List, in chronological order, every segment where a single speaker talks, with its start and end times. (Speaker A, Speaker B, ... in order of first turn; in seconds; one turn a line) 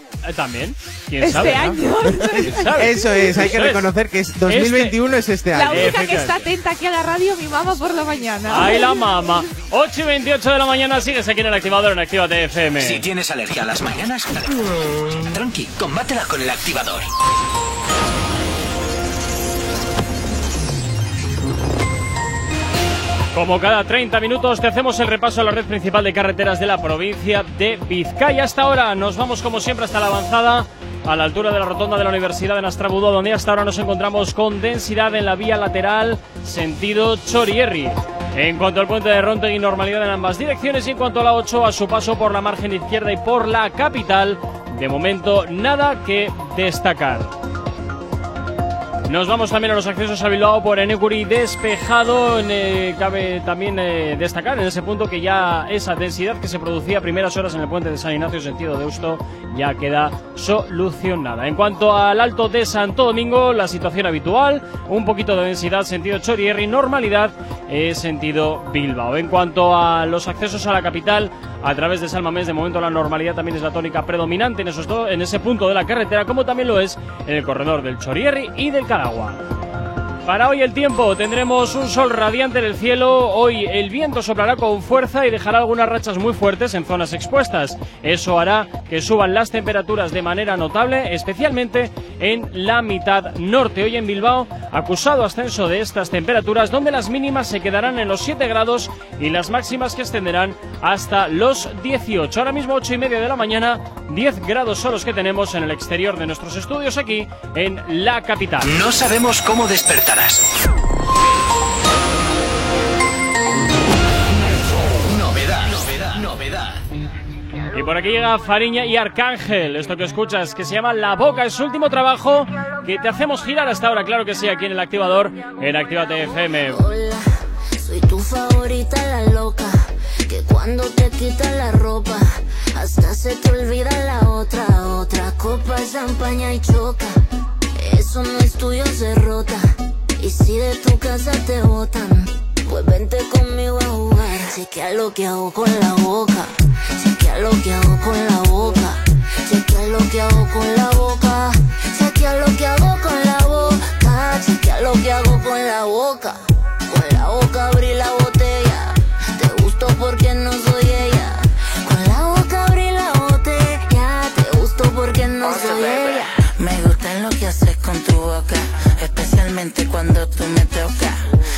Speaker A: 0.2-1.8
Speaker B: 1.2-3.3
Speaker C: 2.0-6.0
Speaker A: 2.4-3.9
Speaker A: 4.5-5.0
Speaker B: 5.5-9.1
Speaker A: 5.7-6.5
Speaker A: 8.5-13.0
Speaker D: 12.8-17.1
Speaker A: 23.3-47.3
Speaker A: 49.1-79.4
Speaker A: 80.3-108.8
Speaker D: 108.7-110.5
Speaker D: 115.0-116.8
Speaker A: 117.7-126.8
Speaker E: 126.7-137.2
Speaker E: 137.8-166.3
Speaker F: 166.6-171.1